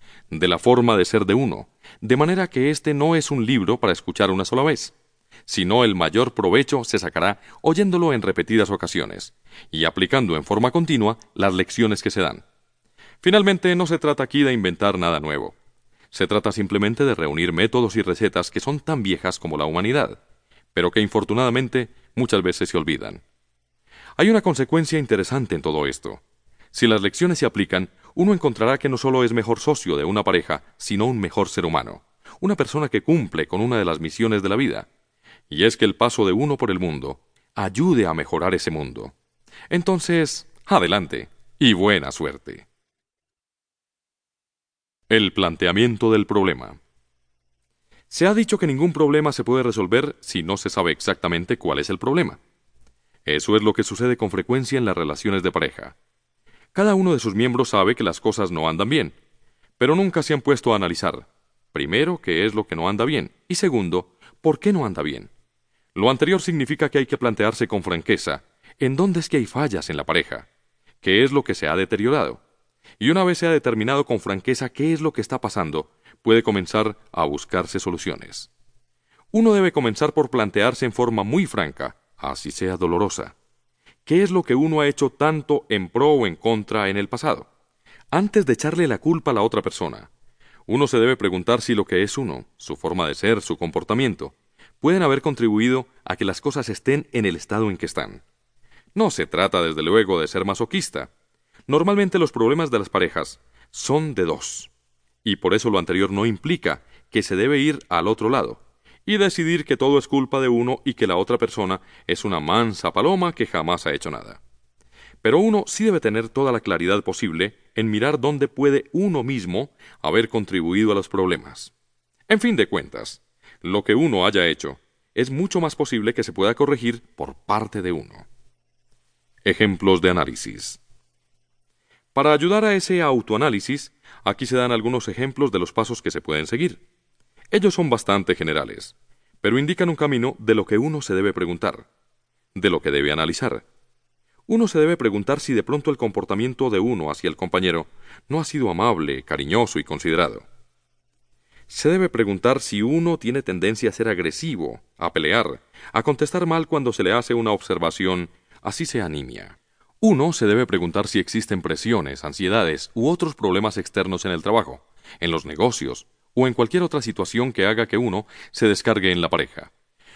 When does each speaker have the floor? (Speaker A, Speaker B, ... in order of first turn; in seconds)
Speaker A: 0.3-5.0, 5.5-12.4, 13.2-15.6, 16.1-20.2, 20.7-23.2, 24.2-26.2, 26.7-34.9, 35.5-39.1, 39.7-42.7, 45.1-46.8, 48.1-52.4, 53.3-56.0, 56.7-59.2, 59.8-65.3, 66.0-70.5, 71.0-72.4, 73.0-78.5, 79.3-83.3, 84.1-87.5, 88.1-90.1, 90.7-98.2, 99.0-101.1, 101.7-104.7, 105.2-114.4, 115.2-121.7, 122.3-128.3, 129.4-130.8, 132.2-136.8, 137.5-141.9, 142.6-143.7, 144.5-150.5, 151.7-169.7